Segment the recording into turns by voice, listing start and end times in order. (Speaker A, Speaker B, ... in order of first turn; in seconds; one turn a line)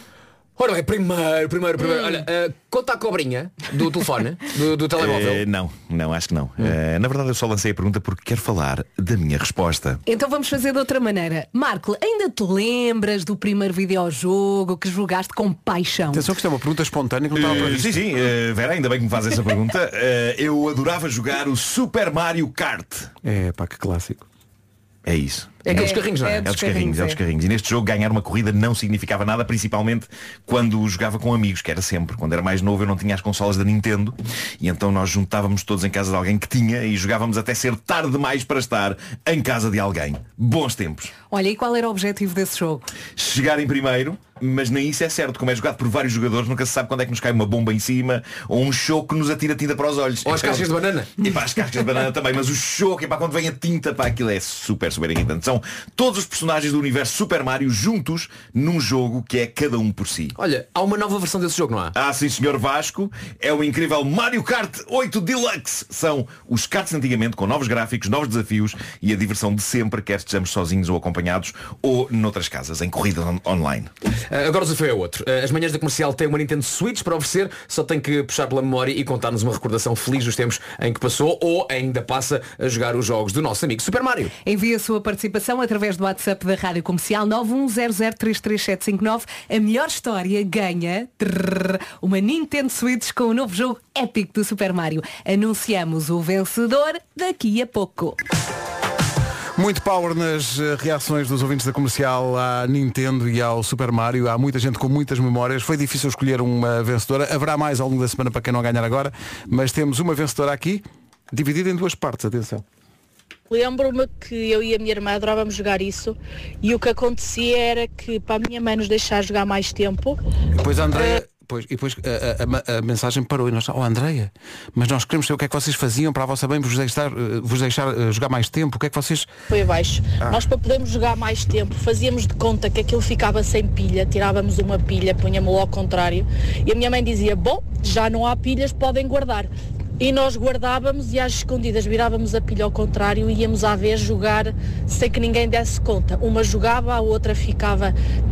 Speaker A: 0.6-5.5
Speaker B: 5.0-10.0
Speaker C: 10.1-16.3
Speaker D: 16.1-18.3
Speaker B: 17.3-23.1
Speaker D: 23.2-24.3
Speaker B: 25.1-41.1
Speaker C: 25.6-27.2
Speaker A: 25.7-26.9
Speaker C: 41.3-42.9
Speaker B: 43.2-60.4
Speaker A: 50.2-51.2
Speaker A: 60.4-62.0
Speaker B: 61.9-73.9
Speaker A: 74.2-84.3
Speaker C: 84.5-98.2
Speaker D: 99.5-112.6
Speaker E: 113.5-120.2
Speaker D: 120.6-129.3
Speaker E: 129.5-147.9